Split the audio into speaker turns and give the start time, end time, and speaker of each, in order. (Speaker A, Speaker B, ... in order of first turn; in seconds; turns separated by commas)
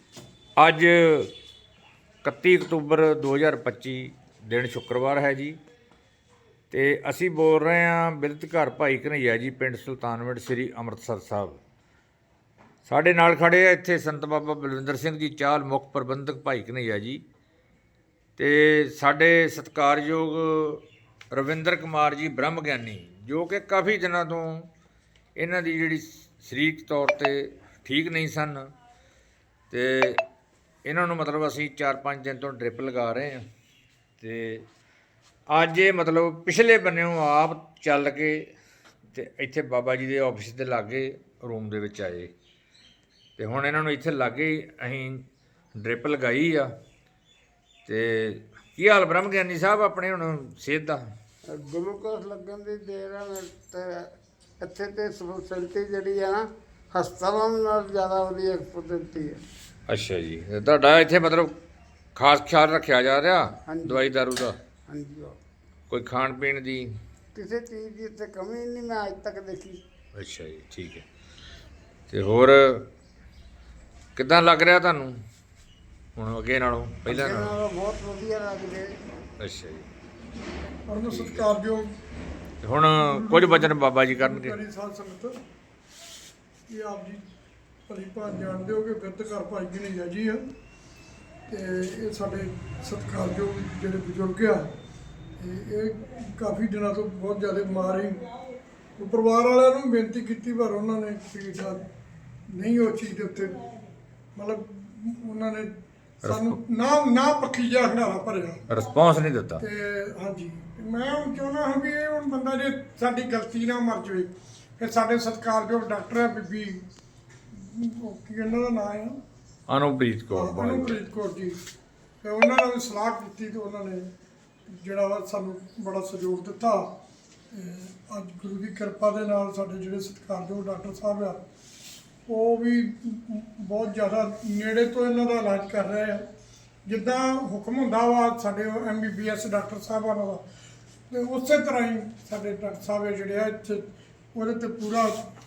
Speaker A: 0.6-1.3, Speaker A: 2.2-5.6, Speaker A: 6.7-11.6, Speaker A: 12.8-17.2, Speaker A: 18.4-24.7, Speaker A: 25.4-28.7, Speaker A: 29.7-30.2, Speaker A: 30.8-33.5, Speaker A: 34.2-34.6, Speaker A: 35.5-38.4, Speaker A: 39.1-42.3, Speaker A: 43.4-45.2, Speaker A: 45.8-46.7, Speaker A: 47.9-51.0, Speaker B: 51.5-54.1, Speaker B: 54.6-59.4, Speaker A: 59.9-61.5, Speaker A: 62.1-64.6, Speaker B: 63.7-64.2, Speaker B: 64.9-65.3, Speaker A: 65.9-66.9, Speaker B: 67.3-69.8, Speaker A: 70.1-71.0, Speaker A: 72.1-72.9, Speaker A: 74.1-75.2, Speaker A: 76.2-77.6, Speaker B: 77.0-78.9, Speaker A: 79.4-79.9, Speaker C: 80.9-81.9, Speaker A: 80.9-81.5, Speaker A: 82.6-84.5, Speaker C: 83.0-85.4, Speaker C: 86.7-87.2, Speaker C: 87.9-90.4, Speaker C: 91.5-94.7, Speaker C: 95.4-98.2, Speaker C: 99.0-101.8, Speaker C: 102.5-103.6, Speaker C: 104.3-105.7, Speaker A: 106.2-106.6, Speaker C: 106.2-108.6, Speaker A: 108.7-109.6, Speaker C: 109.6-116.8, Speaker C: 117.5-119.2, Speaker A: 119.7-121.0, Speaker C: 120.3-121.6, Speaker C: 122.2-124.1, Speaker C: 124.7-126.9, Speaker C: 127.5-131.4, Speaker C: 132.3-136.2, Speaker C: 136.8-140.4, Speaker C: 141.1-145.2